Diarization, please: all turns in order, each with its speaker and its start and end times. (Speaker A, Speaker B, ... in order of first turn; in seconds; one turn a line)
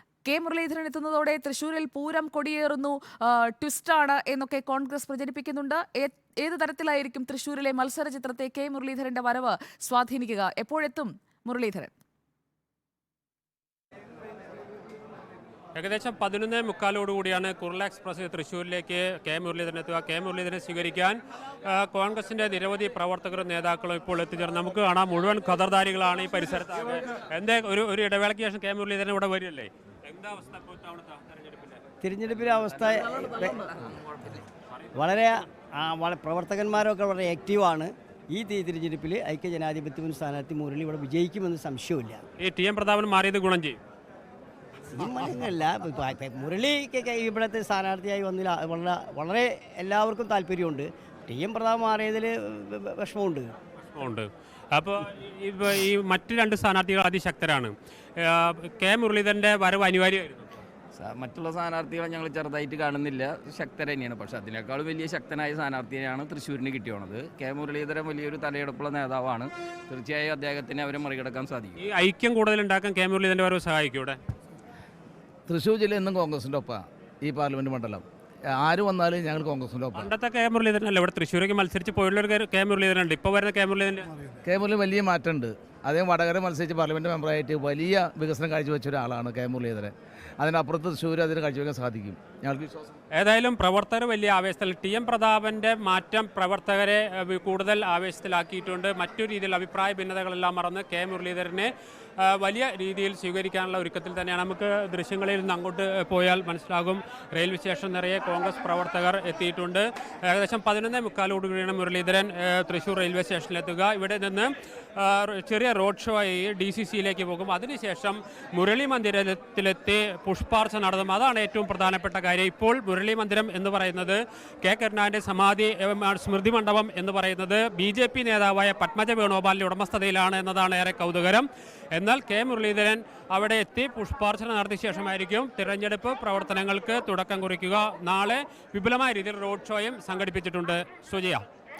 Speaker A: 0.2-11.9
Speaker B: 15.7-21.2
Speaker B: 21.7-31.8
Speaker C: 32.0-33.7
Speaker C: 34.9-42.2
Speaker B: 42.4-43.8
Speaker C: 44.9-53.5
Speaker B: 54.0-60.5
Speaker D: 60.9-71.7
Speaker B: 71.8-74.2
Speaker E: 75.5-80.1
Speaker B: 79.9-84.2
Speaker E: 84.4-92.9
Speaker B: 93.1-141.4